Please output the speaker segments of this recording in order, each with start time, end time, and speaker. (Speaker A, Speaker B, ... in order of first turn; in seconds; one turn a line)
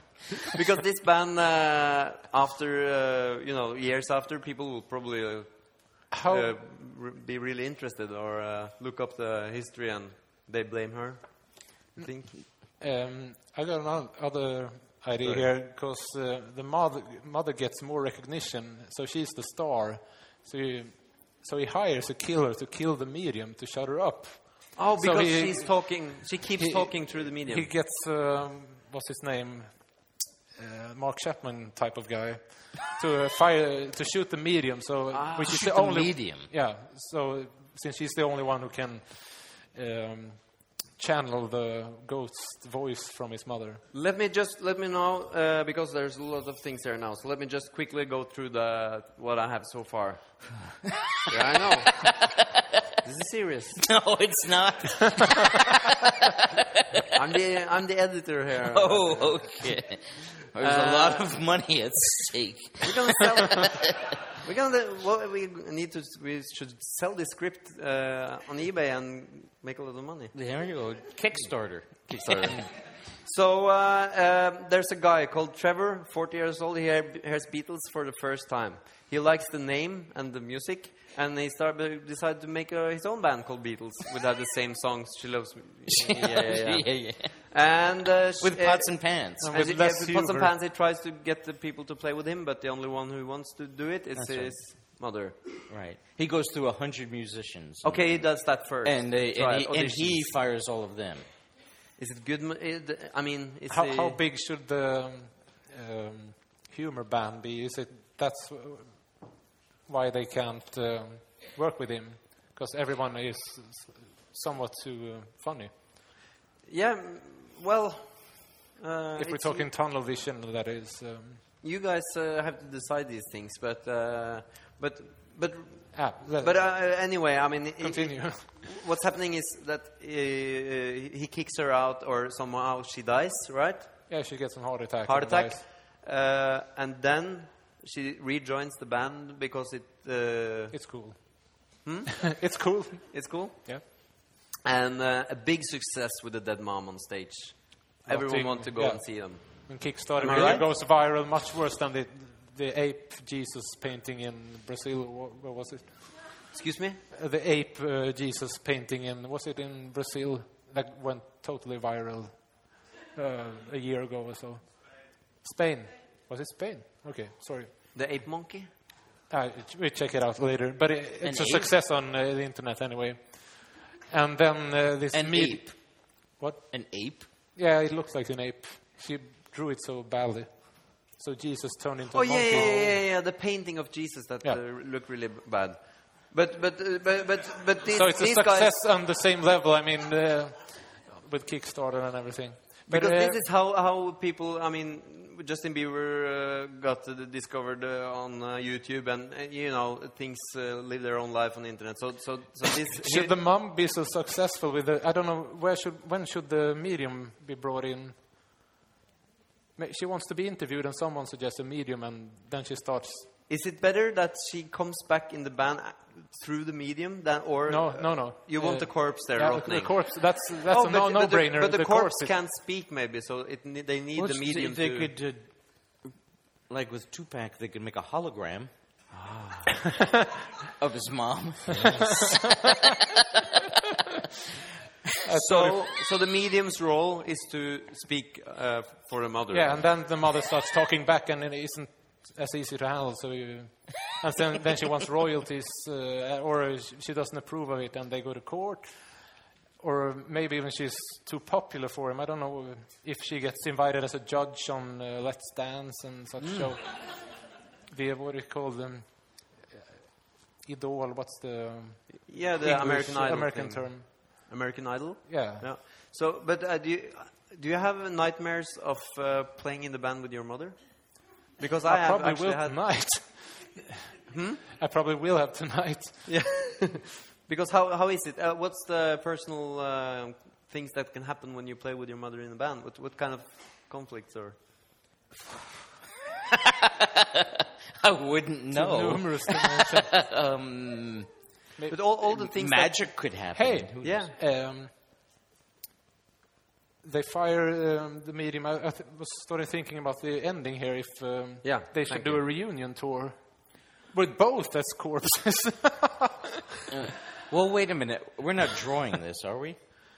Speaker A: 0.5-12.3
Speaker B: 6.1-6.5
Speaker B: 12.4-43.8
Speaker A: 24.8-27.7
Speaker A: 35.1-35.6
Speaker C: 35.5-36.5
Speaker A: 43.9-50.7
Speaker C: 50.9-52.8
Speaker A: 51.3-52.1
Speaker A: 53.0-53.9
Speaker C: 53.8-57.2
Speaker A: 57.1-59.5
Speaker C: 58.6-64.2
Speaker A: 60.6-61.3
Speaker A: 62.8-70.3
Speaker C: 70.3-72.7
Speaker A: 72.1-95.6
Speaker C: 85.9-87.5
Speaker C: 88.4-89.5
Speaker B: 89.4-90.5
Speaker C: 94.2-94.6
Speaker C: 95.7-101.3
Speaker A: 97.8-100.3
Speaker A: 102.0-104.2
Speaker B: 103.7-115.7
Speaker A: 116.7-119.7
Speaker B: 119.2-121.4
Speaker A: 121.6-134.2
Speaker B: 125.9-126.6
Speaker B: 127.8-128.5
Speaker B: 134.1-135.6
Speaker A: 135.1-140.8
Speaker B: 140.7-143.8
Speaker A: 141.8-142.4
Speaker A: 143.1-150.7
Speaker B: 148.1-156.3
Speaker A: 156.5-157.0
Speaker B: 157.1-167.7
Speaker A: 167.9-168.7
Speaker B: 169.3-183.0
Speaker C: 171.2-171.7
Speaker C: 175.1-176.2
Speaker C: 176.7-177.3
Speaker A: 182.1-188.8
Speaker B: 187.9-193.4
Speaker A: 192.9-203.3
Speaker B: 203.0-208.2
Speaker B: 209.8-213.3
Speaker A: 213.5-225.1
Speaker B: 217.7-222.3
Speaker C: 224.2-225.5
Speaker C: 226.7-228.7
Speaker A: 229.1-229.8
Speaker C: 230.8-233.2
Speaker B: 231.8-232.3
Speaker B: 235.2-235.8
Speaker A: 235.4-239.9
Speaker B: 239.5-257.3
Speaker B: 257.9-259.8
Speaker B: 260.6-264.3
Speaker A: 262.3-272.8
Speaker B: 265.3-265.7
Speaker B: 271.9-274.1
Speaker A: 274.3-274.6
Speaker B: 274.8-276.3
Speaker A: 276.3-284.7
Speaker C: 286.5-291.3
Speaker B: 288.7-290.1
Speaker A: 291.9-293.2
Speaker C: 292.2-294.3
Speaker B: 293.5-294.9
Speaker A: 294.0-294.3
Speaker B: 297.0-306.5
Speaker A: 301.6-302.4
Speaker C: 306.9-309.8